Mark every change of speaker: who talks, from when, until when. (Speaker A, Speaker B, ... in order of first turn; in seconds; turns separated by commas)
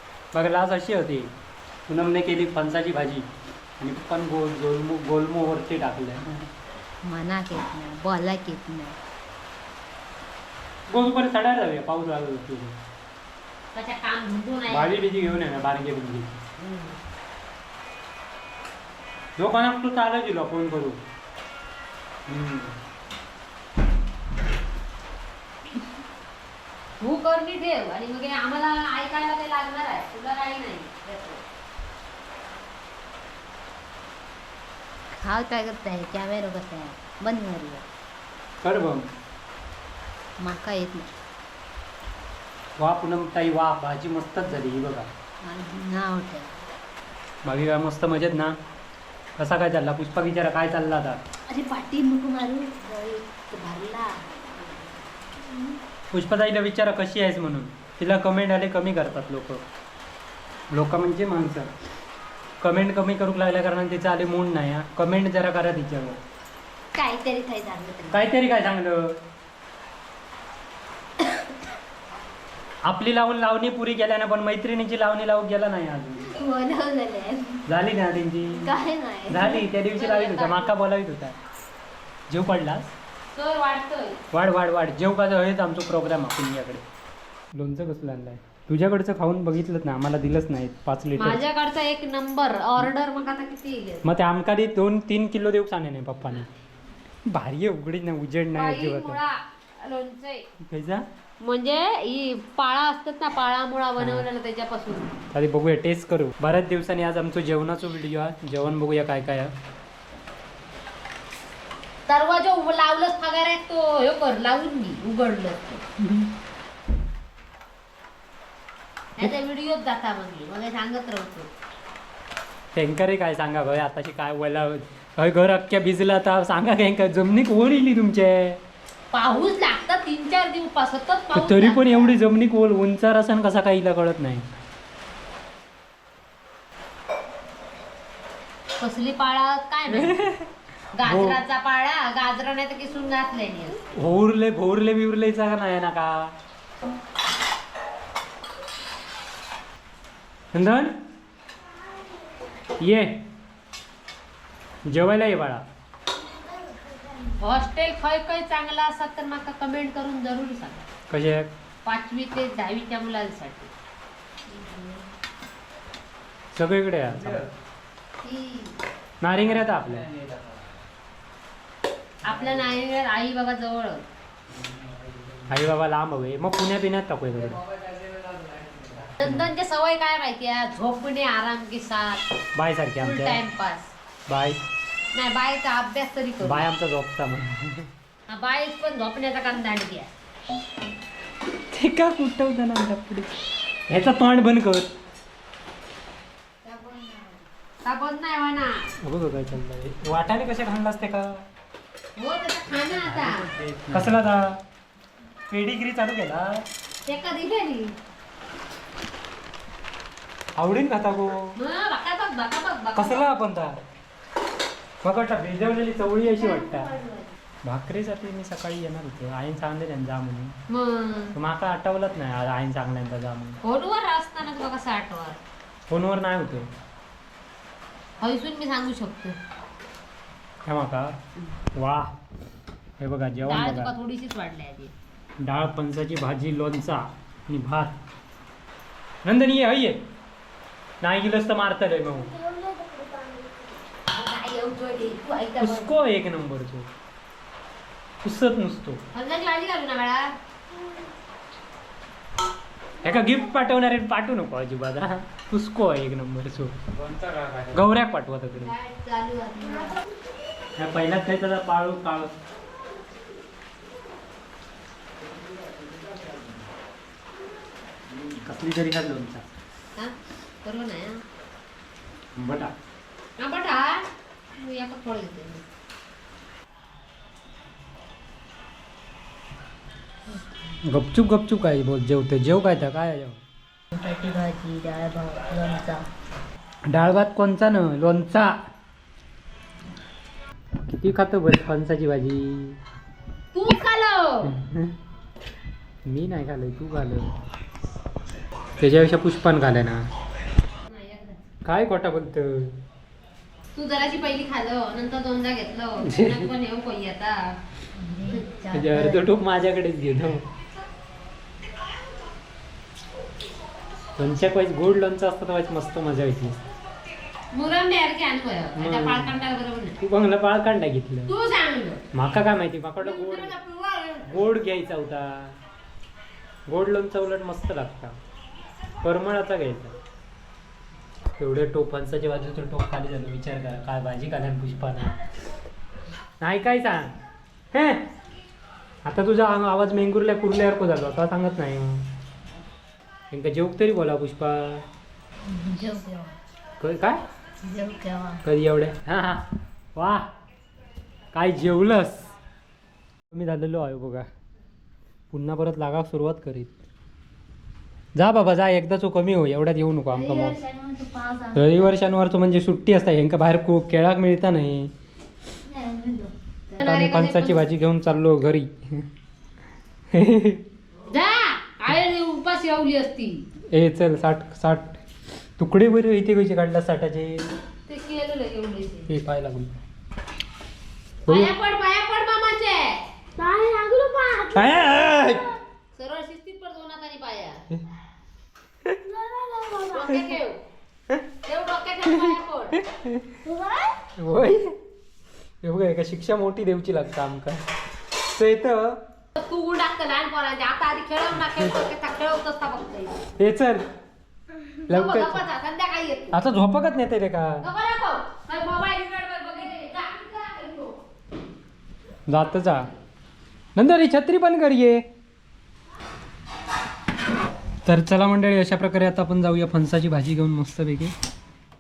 Speaker A: 0.3-1.3, Speaker A: 1.9-3.3, Speaker A: 3.8-6.5, Speaker B: 7.0-9.0, Speaker A: 10.9-12.8, Speaker C: 13.8-15.0, Speaker A: 14.7-16.4, Speaker C: 16.6-17.0, Speaker A: 19.4-21.0, Speaker A: 22.3-22.8, Speaker C: 27.0-31.4, Speaker B: 35.2-37.9, Speaker A: 38.6-39.1, Speaker B: 40.4-41.1, Speaker A: 42.8-45.1, Speaker B: 45.4-46.5, Speaker A: 47.5-48.6, Speaker A: 49.4-51.2, Speaker B: 51.5-54.9, Speaker A: 56.1-59.6, Speaker A: 60.7-61.7, Speaker A: 62.6-66.2, Speaker B: 67.0-68.3, Speaker A: 68.1-69.2, Speaker B: 71.2-71.5, Speaker A: 72.8-76.3, Speaker B: 76.2-77.7, Speaker A: 77.7-78.7, Speaker B: 78.6-79.7, Speaker A: 79.3-81.4, Speaker C: 79.9-80.7, Speaker A: 82.3-82.9, Speaker C: 83.3-84.2, Speaker A: 84.3-86.8, Speaker A: 87.5-91.4, Speaker C: 91.2-94.0, Speaker A: 94.0-96.5, Speaker A: 97.3-99.2, Speaker C: 98.5-100.4, Speaker A: 100.7-101.0, Speaker C: 101.4-105.1, Speaker A: 104.0-104.3, Speaker A: 105.3-109.5, Speaker C: 112.1-115.9, Speaker C: 119.2-121.5, Speaker A: 122.7-128.6, Speaker C: 129.1-132.2, Speaker A: 131.3-134.5, Speaker C: 138.8-140.3, Speaker A: 139.9-140.5, Speaker C: 140.9-143.8, Speaker A: 141.0-141.4, Speaker A: 143.9-146.3, Speaker A: 150.5-150.9, Speaker A: 152.8-153.2, Speaker A: 154.9-155.6, Speaker B: 156.6-157.3, Speaker C: 157.4-160.9, Speaker A: 161.1-161.5, Speaker C: 161.8-163.7, Speaker B: 164.5-165.0, Speaker A: 166.5-167.5, Speaker B: 168.3-168.7, Speaker A: 169.2-170.1, Speaker C: 172.2-174.1, Speaker A: 175.5-177.6, Speaker A: 179.1-179.5, Speaker C: 179.2-182.2, Speaker A: 182.6-183.4, Speaker C: 183.0-183.9, Speaker A: 184.3-184.6, Speaker C: 185.1-186.7, Speaker A: 186.4-187.9, Speaker C: 188.3-190.1, Speaker A: 191.7-193.3, Speaker A: 193.9-194.9, Speaker B: 196.6-197.5, Speaker C: 197.8-198.9, Speaker A: 199.0-201.4, Speaker C: 202.2-203.4, Speaker A: 203.0-204.6, Speaker A: 205.5-206.7, Speaker C: 207.1-207.9, Speaker A: 210.6-211.6, Speaker C: 211.6-213.2, Speaker A: 212.9-213.8, Speaker A: 215.0-216.9, Speaker C: 216.3-217.3, Speaker A: 217.7-220.6, Speaker C: 220.7-221.3, Speaker A: 221.3-223.6, Speaker C: 223.6-225.4, Speaker A: 225.9-226.7, Speaker C: 228.2-229.4, Speaker A: 230.7-231.2, Speaker A: 231.7-232.1, Speaker A: 233.0-233.9, Speaker C: 233.4-234.9, Speaker A: 235.4-238.0, Speaker A: 239.2-240.0, Speaker A: 241.0-242.3, Speaker B: 242.3-243.8, Speaker C: 244.1-245.8, Speaker B: 245.1-245.4, Speaker A: 245.6-246.9, Speaker A: 248.2-249.0, Speaker C: 249.1-250.3, Speaker A: 253.0-258.7, Speaker B: 258.6-260.0, Speaker A: 260.8-262.3, Speaker A: 268.1-269.5, Speaker C: 270.0-271.2, Speaker A: 272.4-272.7, Speaker C: 273.4-275.6, Speaker A: 280.9-283.4, Speaker B: 283.9-286.1, Speaker A: 286.9-288.6, Speaker A: 290.9-292.8, Speaker C: 293.5-294.5, Speaker A: 294.4-295.0, Speaker A: 296.1-297.4, Speaker A: 298.8-300.1, Speaker C: 300.9-301.4, Speaker A: 301.6-302.8, Speaker C: 303.7-307.6, Speaker A: 306.1-306.5, Speaker B: 308.0-309.3, Speaker A: 308.7-310.4, Speaker A: 314.2-316.6, Speaker C: 317.5-320.0, Speaker A: 318.8-319.4, Speaker A: 320.0-321.3, Speaker C: 321.3-322.0, Speaker A: 322.1-323.6, Speaker C: 323.0-324.4, Speaker A: 324.2-325.6, Speaker A: 326.7-328.1, Speaker A: 329.0-329.9, Speaker A: 331.4-335.2, Speaker A: 336.4-337.2, Speaker A: 337.7-338.1, Speaker A: 339.1-342.1, Speaker A: 343.3-344.9, Speaker B: 345.5-346.4, Speaker A: 346.8-347.2, Speaker B: 347.6-348.4, Speaker A: 348.4-350.3, Speaker A: 351.3-352.3, Speaker A: 353.3-354.3, Speaker A: 355.3-356.8, Speaker A: 358.1-360.6, Speaker B: 360.1-362.0, Speaker A: 361.6-364.9, Speaker B: 365.7-366.8, Speaker C: 366.8-367.6, Speaker A: 366.8-369.1, Speaker A: 370.1-370.6, Speaker C: 371.1-373.4, Speaker A: 373.7-375.0, Speaker A: 375.6-377.5, Speaker C: 377.9-379.1, Speaker A: 379.1-379.7, Speaker C: 381.3-387.6, Speaker A: 381.3-381.5, Speaker A: 384.5-385.5, Speaker C: 389.2-390.6, Speaker B: 389.3-389.7, Speaker C: 391.4-392.8, Speaker A: 392.1-393.4, Speaker B: 393.5-393.9, Speaker A: 394.2-394.8, Speaker A: 395.6-399.0, Speaker C: 399.4-403.2, Speaker A: 401.4-401.7, Speaker A: 403.4-403.9, Speaker C: 404.9-406.3, Speaker A: 404.9-405.4, Speaker A: 406.3-407.7, Speaker C: 407.6-411.0, Speaker A: 412.3-412.9, Speaker A: 413.8-415.1, Speaker A: 417.9-421.1